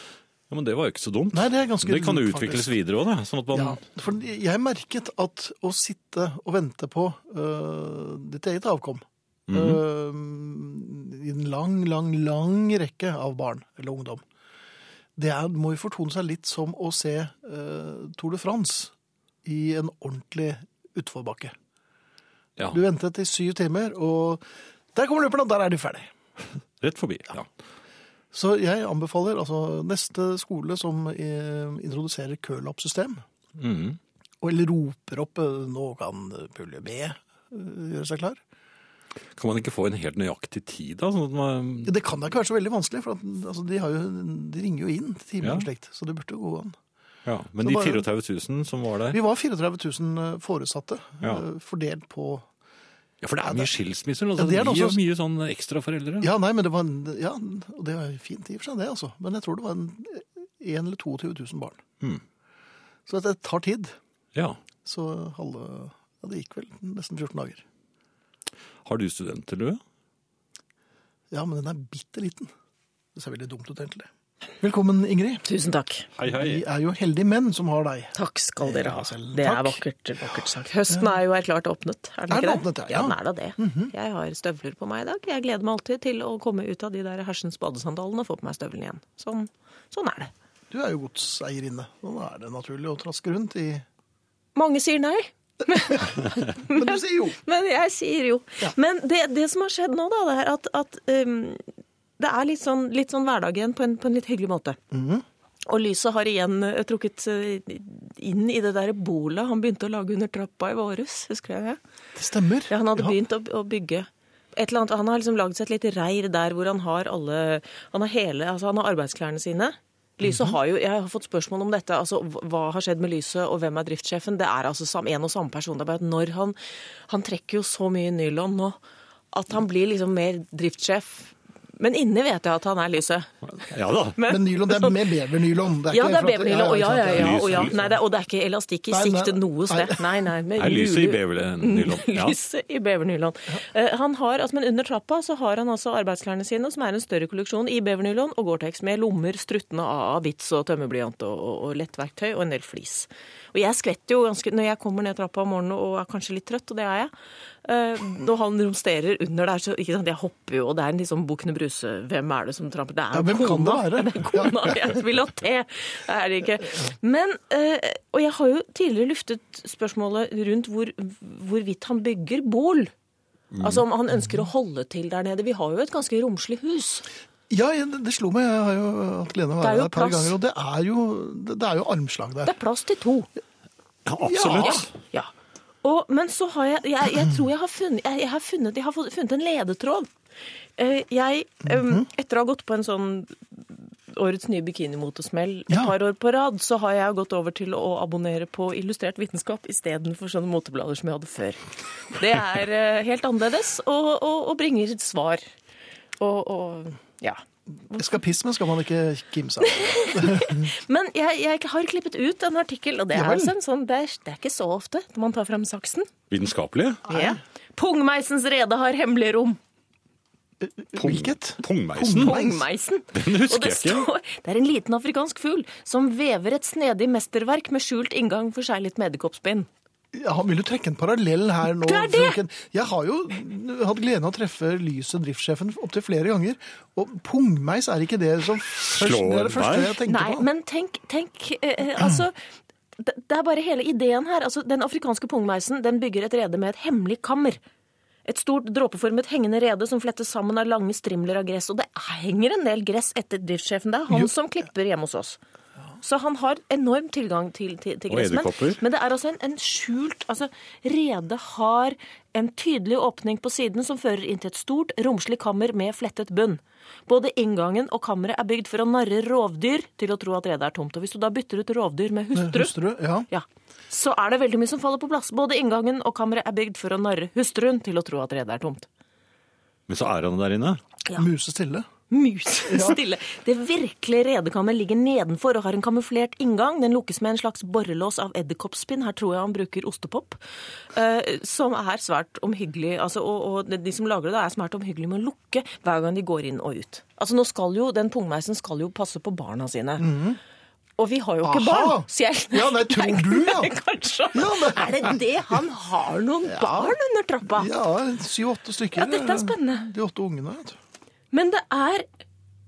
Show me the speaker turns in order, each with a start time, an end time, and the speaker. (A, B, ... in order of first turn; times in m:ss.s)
0:00.5-0:03.8 A
0:01.3-0:02.7 B
0:03.5-0:14.2 B
0:09.5-0:09.8 A
0:15.2-0:18.9 B
0:19.4-0:21.5 B
0:22.7-0:24.4 B
0:24.9-0:26.1 B
0:26.8-0:27.5 A
0:28.3-0:33.2 B
0:33.6-0:34.0 A
0:34.4-0:38.4 B
0:39.4-0:41.9 A
0:41.8-0:46.8 B
0:45.4-0:45.6 A
0:47.2-0:49.2 A
0:47.6-0:48.0 B
0:49.1-0:52.4 B
0:53.2-0:56.3 A
0:53.4-0:53.7 B
0:54.4-0:55.0 B
0:56.2-1:01.8 B
1:03.0-1:03.9 B
1:04.3-1:04.6 A
1:04.8-1:07.6 B
1:08.8-1:09.8 A
1:11.3-1:12.5 B
1:13.1-1:15.4 B
1:15.4-1:16.1 C
1:16.2-1:16.6 A
1:16.2-1:19.8 B
1:18.2-1:30.3 C
1:22.3-1:23.9 B
1:30.7-1:33.8 B
1:34.5-1:41.6 C
1:36.7-1:37.4 B
1:42.2-1:44.8 C
1:44.9-1:45.2 B
1:45.7-1:51.8 C
1:52.2-1:53.1 B
1:52.7-2:08.8 C
2:00.2-2:00.5 B
2:09.3-2:15.2 C
2:13.7-2:14.2 A
2:14.2-2:17.9 B
2:15.9-2:37.1 C
2:17.1-2:17.8 A
2:18.9-2:20.0 B
2:20.6-2:22.4 A
2:37.6-2:52.9 C
2:43.1-2:44.7 B
2:53.5-2:53.8 A
2:53.6-2:57.0 C
2:57.5-3:02.5 B
2:59.6-3:00.4 C
3:02.4-3:03.3 C
3:04.0-3:04.9 A
3:04.2-3:04.8 B
3:04.4-3:05.3 C
3:05.8-3:10.1 C
3:10.8-3:25.4 C
3:11.6-3:12.0 B
3:26.2-3:27.4 C
3:27.9-3:30.7 B
3:29.7-3:36.1 C
3:33.1-3:33.5 B
3:36.3-3:37.0 A
3:37.1-3:39.6 C
3:37.1-3:37.4 B
3:40.6-3:42.6 B
3:41.0-3:42.4 A
3:42.1-3:49.7 C
3:43.1-3:44.1 A
3:50.1-4:00.5 B
3:51.8-3:52.4 C
3:58.8-4:00.0 A
4:00.1-4:02.4 C
4:03.0-4:07.6 C
4:08.2-4:15.4 C
4:16.0-4:32.8 C
4:18.1-4:18.8 A
4:32.3-4:33.3 B
4:33.3-4:38.9 C
4:39.9-4:40.8 A
4:41.1-4:41.9 B
4:42.1-4:50.4 C
4:42.7-4:43.0 B
4:50.9-5:00.1 C
5:00.0-5:00.4 B
5:01.0-5:07.7 C
5:01.4-5:03.7 B
5:04.3-5:05.2 B
5:06.5-5:06.9 B
5:07.5-5:10.8 B
5:09.0-5:09.9 C
5:11.3-5:12.0 C